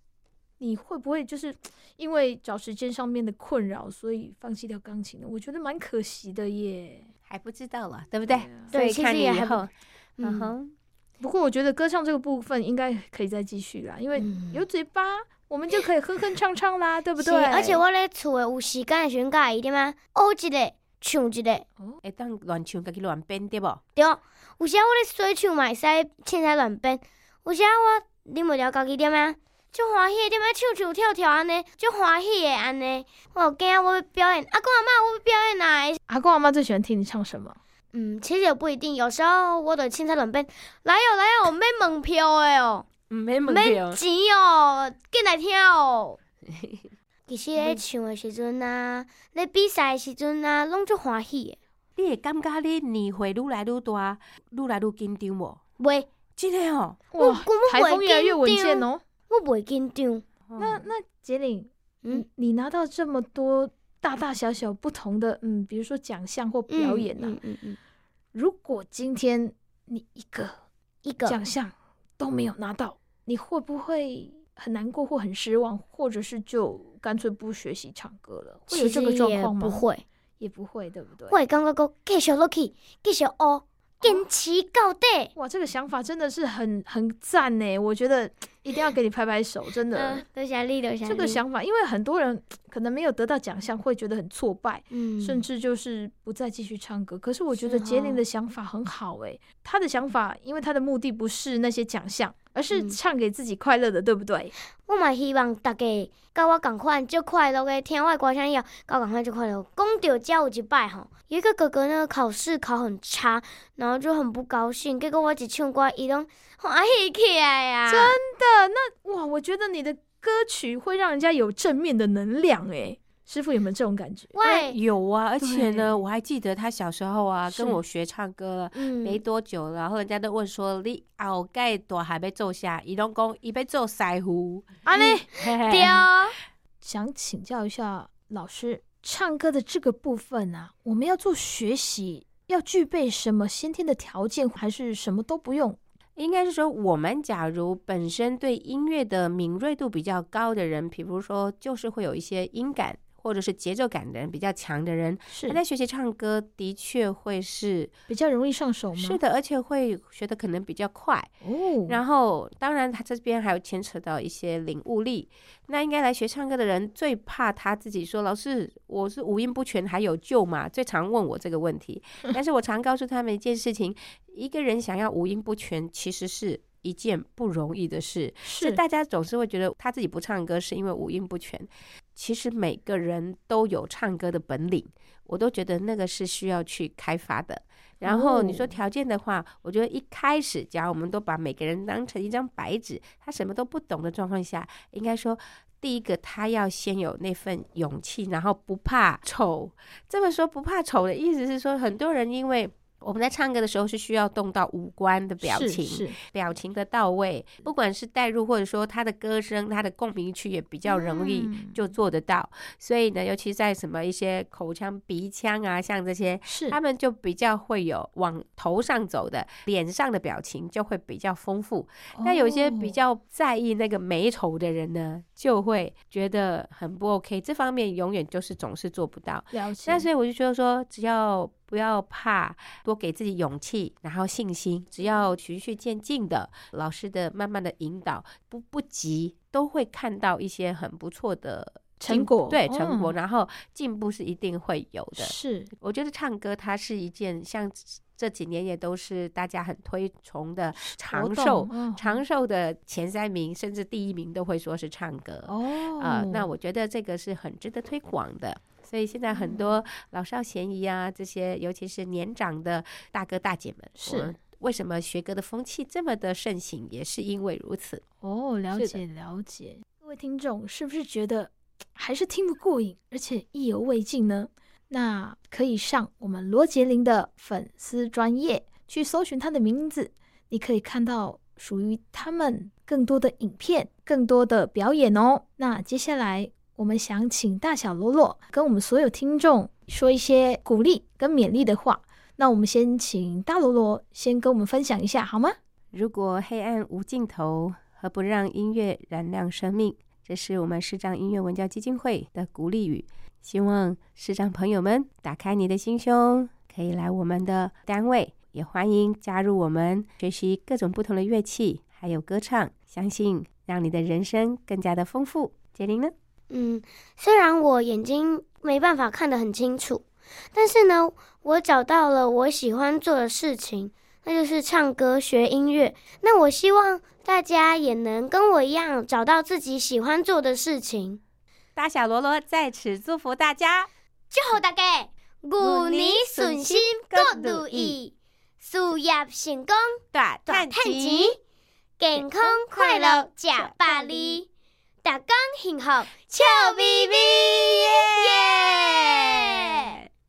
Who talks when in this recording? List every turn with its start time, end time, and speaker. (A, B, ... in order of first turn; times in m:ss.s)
0:00.6-0:07.1 A
0:07.3-0:10.7 B
0:08.2-0:08.7 A
0:08.7-0:09.6 C
0:10.2-0:10.5 C
0:11.2-0:17.8 A
0:14.2-0:14.6 C
0:17.2-0:21.6 C
0:22.0-0:23.8 B
0:24.0-0:36.0 C
0:36.1-0:37.6 A
0:37.9-0:42.9 C
0:43.1-0:44.0 B
0:43.5-0:46.2 C
0:47.3-0:51.6 C
0:52.0-0:55.6 B
0:55.8-0:56.1 C
0:56.4-0:57.0 B
0:57.1-0:59.0 A
0:57.2-1:00.2 C
1:00.5-1:00.8 B
1:00.6-1:07.4 A
1:06.7-1:07.8 C
1:08.3-1:10.6 A
1:11.0-1:11.4 C
1:11.2-1:19.8 A
1:18.7-1:20.0 C
1:20.4-1:21.4 A
1:21.3-1:25.3 C
1:25.4-1:30.2 A
1:29.9-1:31.4 C
1:31.0-1:44.5 A
1:34.9-1:35.4 C
1:37.5-1:38.2 C
1:44.8-1:58.2 C
1:57.9-2:04.4 A
2:04.3-2:04.8 C
2:04.4-2:14.8 B
2:05.4-2:06.0 A
2:07.5-2:07.8 A
2:08.8-2:09.2 C
2:14.8-2:15.3 A
2:15.0-2:16.4 C
2:15.3-2:16.1 B
2:16.8-2:25.8 A
2:26.2-2:37.9 B
2:35.3-2:35.6 A
2:38.1-2:39.2 A
2:39.0-2:41.3 B
2:41.4-2:42.0 A
2:41.9-4:28.0 B
2:58.4-2:58.8 A
3:08.0-3:08.8 A
3:25.4-3:26.2 A
3:30.9-3:31.9 A
3:36.5-3:36.8 A
3:42.1-3:43.0 A
3:49.5-3:50.1 A
4:02.0-4:03.1 A
4:05.2-4:05.7 A
4:11.0-4:12.2 A
4:15.5-4:16.5 A
4:19.3-4:19.8 A
4:24.0-4:24.4 A
4:28.2-4:55.6 A
4:28.7-4:29.0 B
4:55.9-5:16.1 B
5:16.5-5:31.2 C
5:31.8-5:33.9 B
5:34.3-5:41.4 C
5:35.6-5:38.0 B
5:40.1-5:41.4 B
5:42.0-5:44.5 C
5:42.2-5:44.4 B
5:45.0-5:49.8 C
5:46.4-5:49.7 B